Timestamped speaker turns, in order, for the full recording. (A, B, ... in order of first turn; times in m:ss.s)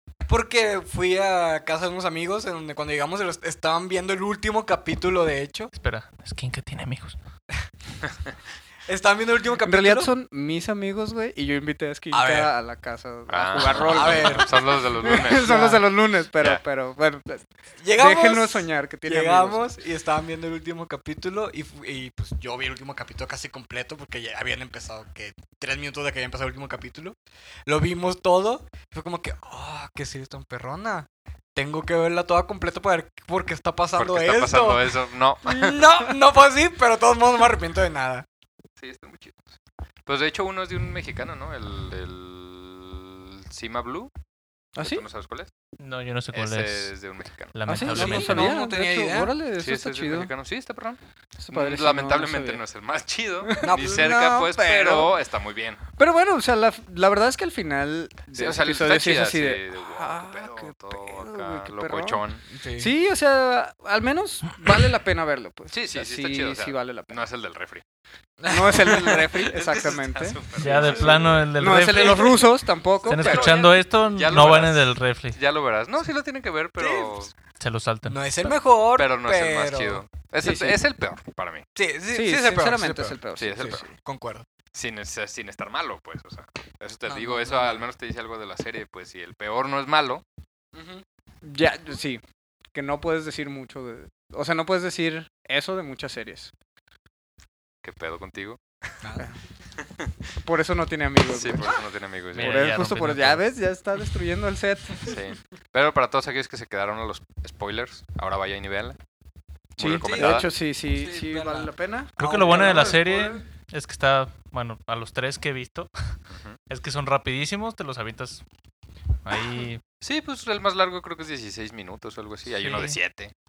0:00.3-0:05.7 A
0:05.7-0:07.2 B
0:08.9-0:10.1 A
0:09.7-0:19.7 C
0:12.1-0:12.5 A
0:13.3-0:15.7 D
0:13.6-0:15.8 A
0:17.8-0:38.3 A
0:34.0-0:35.9 D
0:38.8-0:44.1 D
0:44.8-0:45.0 C
0:44.8-0:45.5 D
0:45.8-0:46.9 B
0:46.3-0:47.6 D
0:47.6-0:48.5 B
0:47.7-0:50.3 C
0:47.8-0:49.4 A
0:49.6-0:51.0 D
0:51.4-0:52.6 C
0:51.5-0:55.8 D
0:53.4-0:55.2 C
0:53.6-0:54.3 A
0:56.0-1:02.2 C
0:58.3-1:02.4 D
1:02.5-1:02.9 A
1:02.8-1:07.2 C
1:05.7-1:07.8 D
1:08.4-1:09.2 A
1:08.5-1:13.8 C
1:09.4-1:12.4 D
1:10.6-1:12.4 B
1:13.0-1:17.4 D
1:13.1-1:15.4 B
1:16.8-1:17.2 A
1:17.6-1:18.2 B
1:18.1-1:20.0 A
1:19.0-1:21.6 D
1:20.4-1:20.8 C
1:21.8-1:23.2 A
1:22.1-1:24.0 C
1:23.4-1:23.8 D
1:23.8-1:24.5 A
1:24.8-1:30.2 D
1:27.1-1:27.9 A
1:30.7-1:31.0 A
1:31.4-1:32.2 C
1:32.7-1:36.5 C
1:37.8-1:39.0 D
1:39.0-1:39.3 A
1:39.8-1:40.1 D
1:40.4-1:41.8 C
1:41.3-1:42.6 D
1:42.3-1:43.4 B
1:42.4-1:45.1 C
1:45.0-1:49.0 D
1:49.8-1:50.5 D
1:49.8-1:53.4 C
1:50.0-1:53.2 A
1:52.2-1:56.2 B
1:56.3-1:56.6 D
1:56.7-1:58.4 B
1:59.2-1:59.8 B
2:00.0-2:03.3 D
2:02.5-2:03.0 B